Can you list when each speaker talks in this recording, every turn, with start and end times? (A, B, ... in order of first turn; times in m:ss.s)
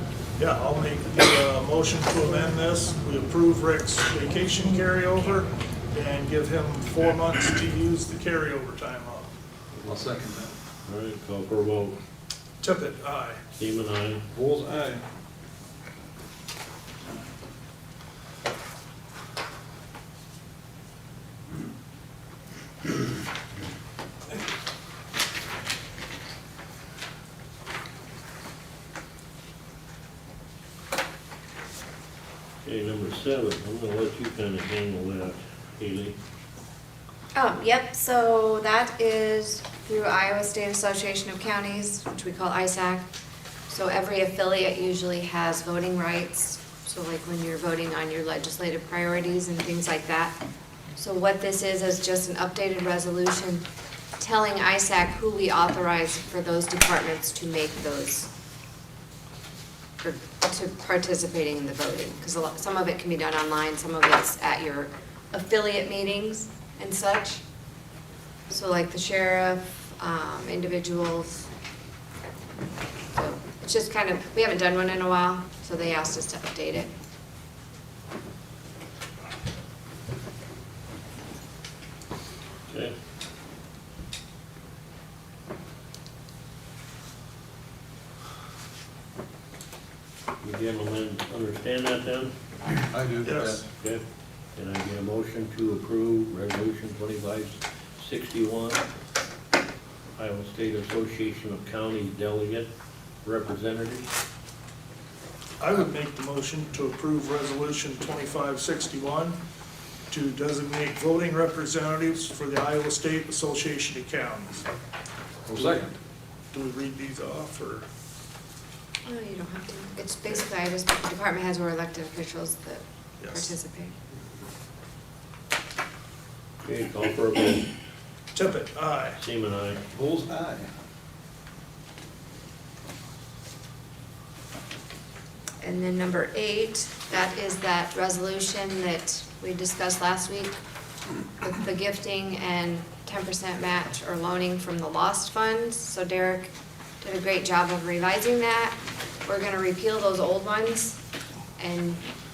0:00.4-0:09.3 A
0:09.8-0:10.5 B
0:10.8-0:12.0 C
0:12.6-0:13.4 A
0:13.6-0:14.2 C
0:14.3-0:15.0 B
0:32.6-0:36.2 C
0:37.4-0:43.1 D
0:43.7-0:50.4 D
0:51.0-0:53.6 D
0:54.2-0:58.3 D
1:00.0-1:07.4 D
1:08.5-1:11.5 D
1:13.1-1:16.9 D
1:22.7-1:22.9 C
1:30.4-1:32.3 C
1:32.9-1:33.6 B
1:33.2-1:33.6 A
1:33.8-1:34.0 C
1:34.5-1:38.8 C
1:40.2-1:42.7 C
1:43.2-1:44.1 C
1:45.6-1:49.4 A
1:50.1-1:54.7 A
1:55.4-1:55.9 B
1:56.5-1:57.9 A
1:59.0-2:03.9 D
2:03.2-2:03.5 A
2:06.6-2:07.7 C
2:08.3-2:09.2 A
2:09.2-2:09.8 C
2:09.9-2:10.7 B
2:15.6-2:20.6 D
2:21.4-2:31.0 D
2:31.6-2:32.0 D